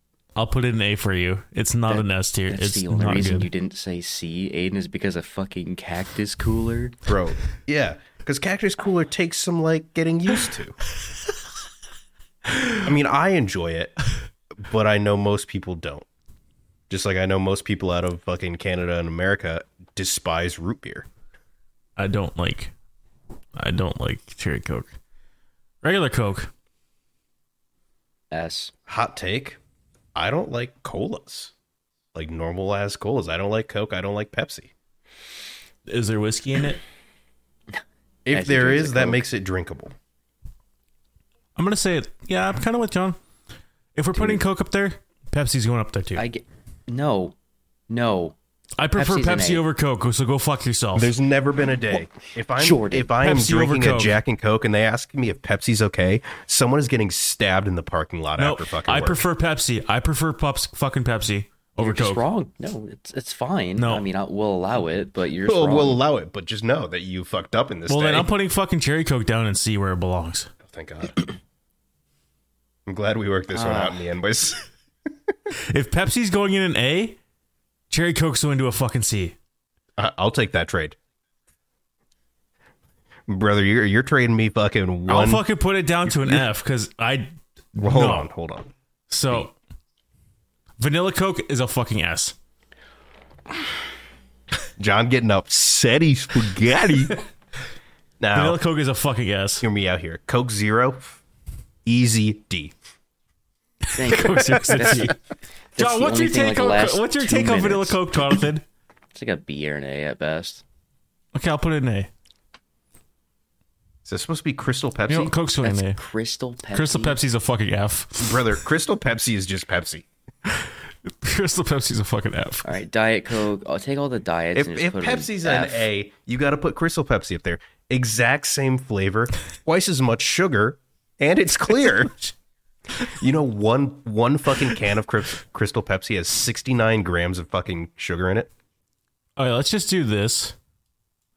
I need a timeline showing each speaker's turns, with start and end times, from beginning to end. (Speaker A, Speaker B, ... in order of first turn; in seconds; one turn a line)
Speaker A: 0.3-3.5
Speaker B: 1.9-7.0
Speaker C: 7.1-10.8
Speaker A: 12.5-12.8
Speaker C: 12.8-13.9
Speaker C: 14.5-16.1
Speaker C: 16.9-21.1
Speaker A: 22.0-22.7
Speaker A: 23.6-24.9
Speaker A: 25.8-26.5
Speaker B: 28.3-28.7
Speaker C: 28.9-29.6
Speaker C: 30.1-31.5
Speaker C: 32.1-34.7
Speaker A: 35.9-36.8
Speaker C: 38.2-39.9
Speaker B: 38.3-39.2
Speaker A: 41.5-43.2
Speaker A: 43.9-46.2
Speaker B: 46.1-47.3
Speaker B: 47.9-48.4
Speaker A: 48.8-51.1
Speaker B: 49.0-49.6
Speaker C: 50.9-59.2
Speaker B: 52.6-53.1
Speaker A: 53.2-54.1
Speaker A: 58.4-62.2
Speaker B: 61.8-66.0
Speaker A: 63.8-64.0
Speaker C: 65.4-68.3
Speaker A: 67.9-70.5
Speaker C: 70.6-71.2
Speaker C: 72.8-74.6
Speaker B: 73.5-74.1
Speaker A: 75.5-77.2
Speaker A: 77.9-79.3
Speaker C: 80.0-81.0
Speaker C: 83.3-85.4
Speaker A: 85.1-88.3
Speaker C: 86.0-86.5
Speaker C: 87.8-88.7
Speaker A: 89.1-89.5
Speaker A: 90.8-92.3
Speaker C: 94.8-97.2
Speaker C: 98.2-98.6
Speaker A: 98.3-99.7
Speaker C: 99.6-101.2
Speaker C: 101.8-102.7
Speaker A: 103.9-105.2
Speaker B: 103.9-105.2
Speaker C: 104.7-105.0
Speaker B: 105.7-108.4
Speaker A: 105.8-108.6
Speaker B: 109.1-110.6
Speaker A: 111.3-112.1
Speaker C: 114.0-115.3
Speaker A: 115.1-116.0
Speaker B: 115.6-117.2
Speaker A: 116.7-118.4
Speaker C: 118.2-120.1
Speaker A: 120.5-122.7
Speaker B: 122.6-125.9
Speaker C: 124.5-132.3
Speaker C: 133.0-138.5
Speaker A: 139.4-140.6